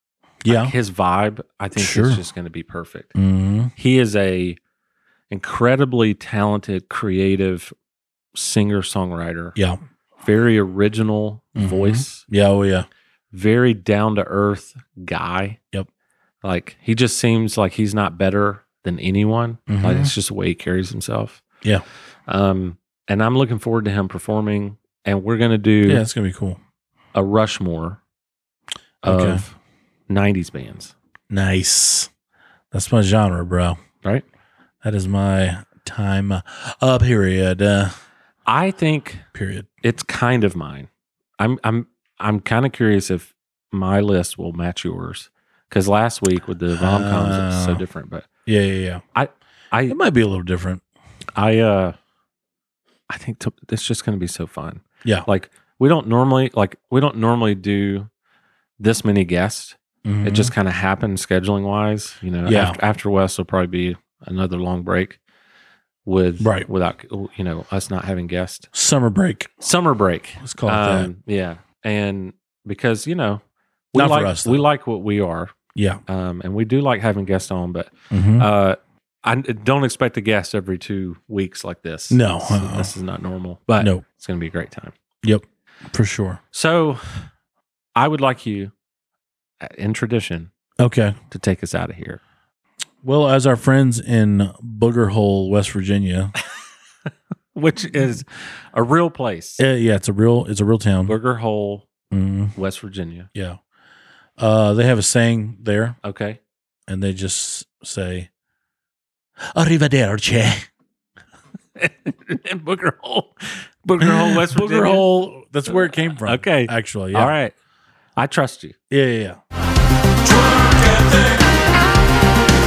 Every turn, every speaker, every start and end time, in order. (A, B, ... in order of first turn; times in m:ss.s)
0:00.4-0:00.7 A
0:00.4-0:03.1 B
0:01.8-0:02.2 A
0:03.1-0:03.7 A
0:03.8-0:04.6 B
0:05.3-0:07.7 B
0:08.3-0:09.6 B
0:10.2-0:12.2 B
0:11.6-0:12.9 A
0:13.3-0:15.6 B
0:16.4-0:21.4 B
0:19.7-0:20.1 A
0:22.3-0:26.0 B
0:25.8-0:26.6 A
0:27.1-0:28.0 B
0:29.0-0:29.6 B
0:29.0-0:29.4 A
0:30.1-0:30.9 B
0:31.3-0:32.1 A
0:32.7-0:33.8 A
0:34.8-0:37.9 A
0:38.4-0:39.2 B
0:39.3-0:39.7 A
0:39.8-0:48.3 B
0:46.7-0:47.8 A
0:48.4-0:49.0 A
0:49.1-0:50.0 B
0:49.9-0:50.8 A
0:51.4-0:52.0 B
0:53.1-0:58.1 B
0:58.8-1:05.2 B
1:00.0-1:00.5 A
1:02.4-1:02.8 A
1:06.0-1:08.7 B
1:06.4-1:06.7 A
1:08.7-1:09.5 A
1:09.6-1:15.5 B
1:10.4-1:11.1 A
1:13.9-1:14.6 A
1:15.7-1:16.0 A
1:16.1-1:24.9 B
1:18.1-1:18.5 A
1:22.1-1:22.9 A
1:23.8-1:24.0 A
1:25.2-1:26.4 A
1:26.5-1:27.3 B
1:28.0-1:28.7 B
1:29.6-1:30.5 B
1:30.8-1:31.2 A
1:31.3-1:32.2 B
1:33.0-1:36.3 A
1:37.5-1:39.6 B
1:39.6-1:41.2 A
1:41.0-1:41.9 B
1:42.1-1:42.6 A
1:42.6-1:43.3 B
1:44.4-1:46.0 A
1:46.0-1:46.4 B
1:46.9-1:48.3 A
1:49.4-1:50.7 A
1:51.8-1:55.1 B
1:54.0-1:57.3 A
1:55.7-1:57.6 B
1:58.2-1:58.8 B
1:58.9-1:59.4 A
2:00.3-2:01.4 A